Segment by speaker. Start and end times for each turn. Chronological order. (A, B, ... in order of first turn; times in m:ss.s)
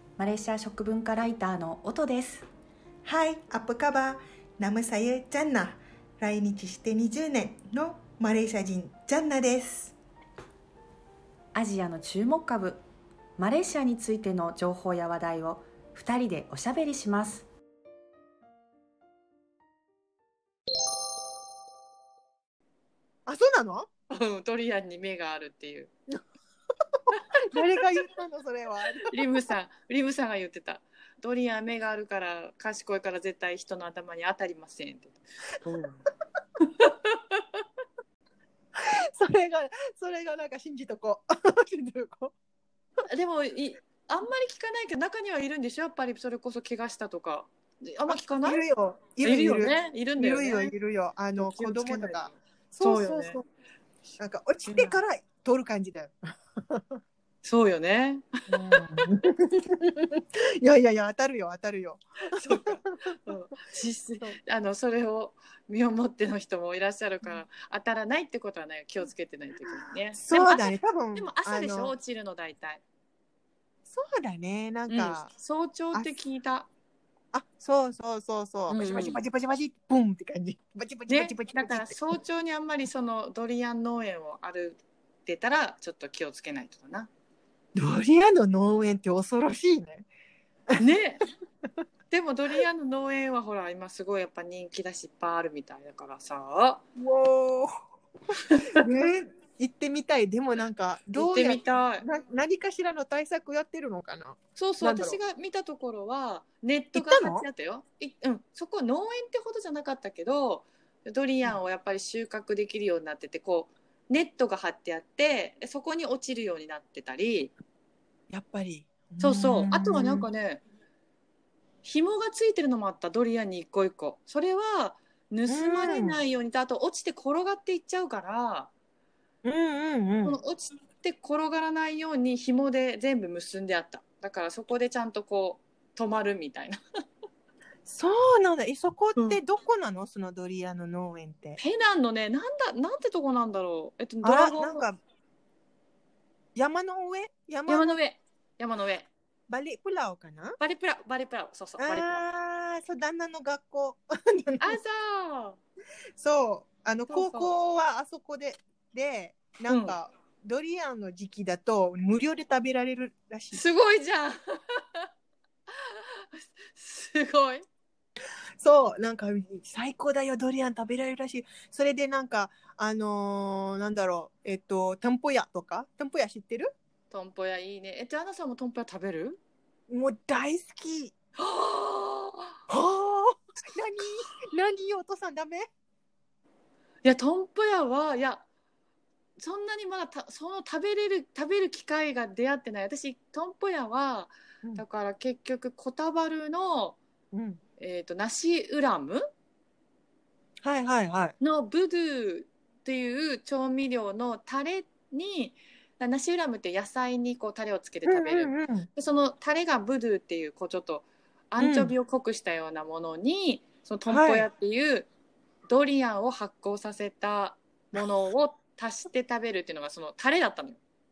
0:00.2-0:02.5 A
0:03.0-0:10.0 B
0:11.5-0:12.8 A
0:13.4-0:17.5 A
0:23.3-0:23.9 B
0:24.1-0:25.9 C
0:27.5-0:29.1 B
0:29.1-0:36.0 C
0:36.7-0:37.4 C
0:38.8-0:42.3 B
0:43.1-0:48.6 C
0:48.1-0:53.4 B
0:49.2-0:50.7 C
0:51.4-0:53.4 C
0:54.2-0:56.9 B
0:54.6-0:55.0 C
0:57.4-0:58.4 C
0:58.5-1:03.1 B
1:02.3-1:12.8 C
1:10.1-1:12.0 B
1:13.9-1:15.3 B
1:14.9-1:16.7 C
1:17.3-1:22.0 B
1:18.7-1:19.2 C
1:21.1-1:27.1 C
1:27.8-1:30.1 B
1:30.8-1:31.2 C
1:32.1-1:36.8 C
1:37.0-1:37.7 B
1:38.4-1:38.9 C
1:38.8-1:45.2 B
1:41.2-1:42.0 C
1:44.6-1:57.5 C
1:47.0-1:47.4 B
1:58.3-2:00.3 B
1:59.2-2:00.6 C
2:01.8-2:08.7 C
2:05.5-2:06.2 B
2:09.4-2:10.4 B
2:10.2-2:16.8 C
2:17.9-2:21.6 B
2:19.2-2:19.4 C
2:21.6-2:24.9 C
2:24.2-2:25.0 B
2:26.6-2:28.0 B
2:27.7-2:29.1 C
2:29.5-2:30.6 B
2:30.6-2:32.2 C
2:31.8-2:34.8 B
2:34.6-2:35.6 C
2:36.2-2:43.6 B
2:37.1-2:37.5 C
2:39.7-2:40.0 C
2:43.5-2:45.1 C
2:45.7-2:47.6 C
2:48.6-2:56.7 B
2:57.1-2:59.4 C
2:59.9-3:01.1 B
3:01.4-3:02.6 C
3:02.7-3:05.7 B
3:07.0-3:08.4 C
3:09.4-3:17.0 C
3:17.3-3:17.6 B
3:17.8-3:19.3 C
3:20.6-3:21.4 B
3:21.4-3:35.1 C
3:28.0-3:28.9 B
3:31.6-3:31.9 B
3:34.1-3:34.5 B
3:35.7-3:40.8 C